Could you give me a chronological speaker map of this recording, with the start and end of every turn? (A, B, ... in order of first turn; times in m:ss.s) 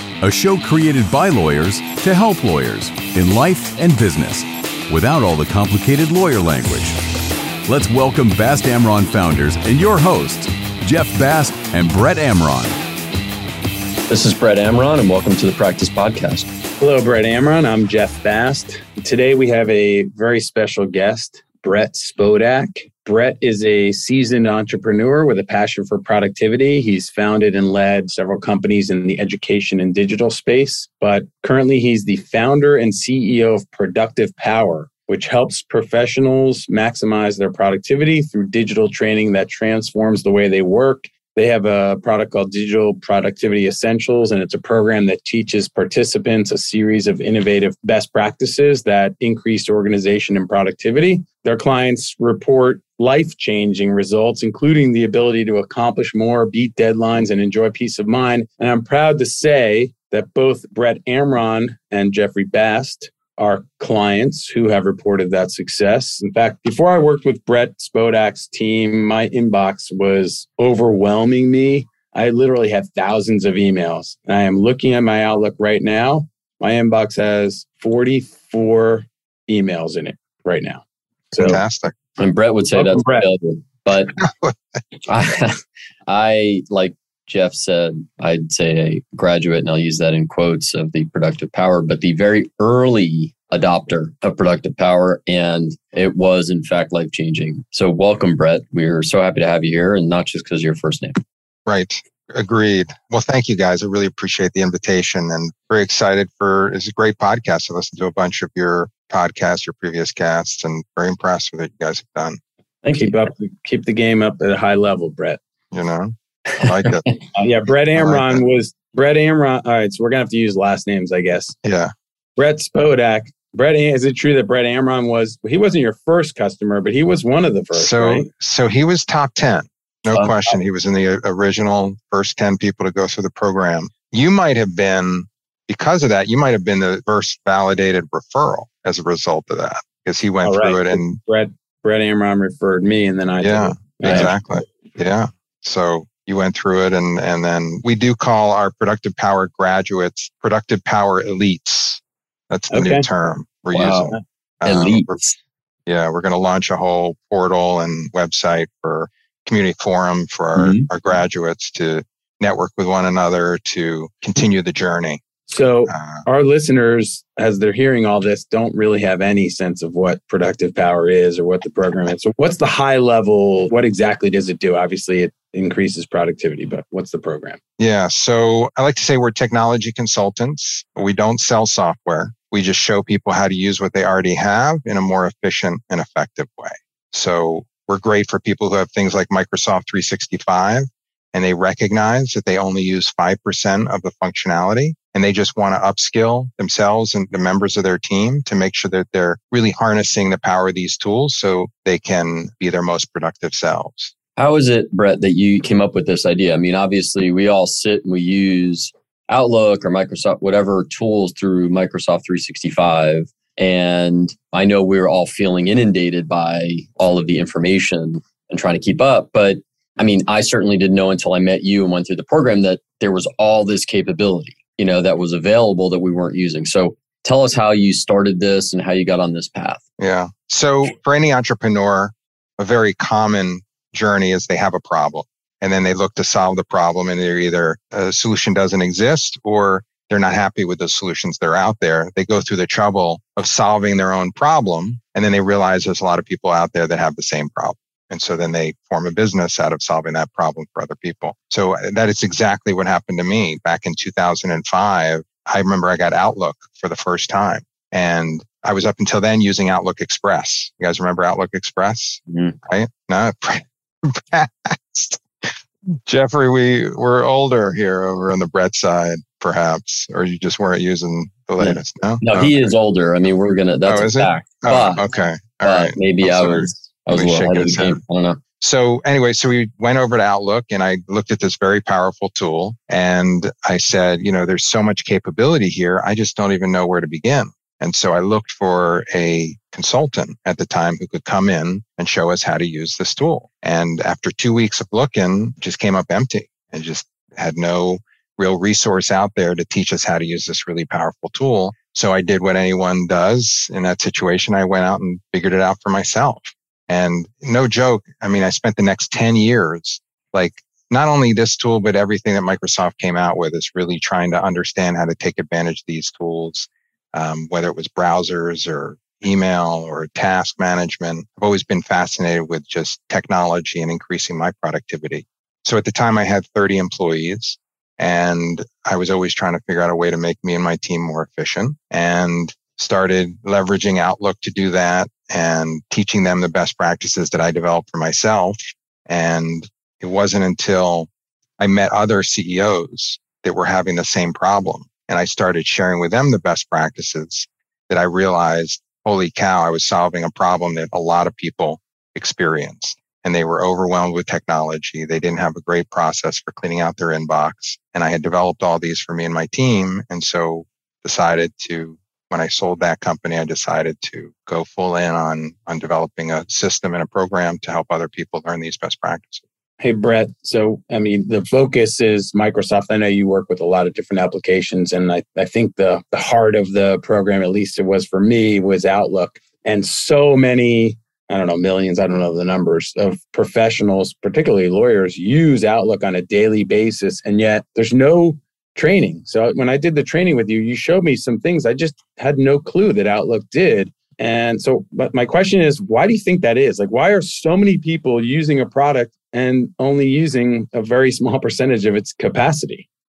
0:00.2-0:07.0 A
0:07.7-0:12.8 A
0:14.1-0:16.5 B
0:16.8-1:21.6 C
1:21.4-1:22.0 D
1:22.2-1:24.2 B
1:22.8-1:23.3 C
1:24.2-1:24.8 D
1:25.1-1:41.2 B
1:41.7-1:52.4 D
1:52.8-1:53.1 B
1:52.9-1:55.4 C
1:55.7-1:57.0 D
1:56.6-1:57.1 B
1:57.4-2:01.6 C
1:58.0-1:58.4 D
2:01.6-2:01.9 D
2:02.4-2:08.3 C
2:07.7-2:21.2 D
2:20.4-2:24.4 C
2:23.4-2:35.2 D
2:32.7-2:33.1 C
2:33.7-2:35.4 B
2:35.9-2:45.2 D
2:40.6-2:40.8 B
2:45.5-2:57.6 C
2:45.9-2:46.3 D
2:57.8-3:24.1 D
3:24.4-3:49.8 B
3:50.0-4:25.5 D
4:22.3-4:22.6 B
4:26.1-4:32.7 D
4:31.6-4:35.0 B
4:33.9-4:38.0 D
4:35.6-4:38.4 B
4:38.6-6:09.4 D
6:09.8-6:42.9 C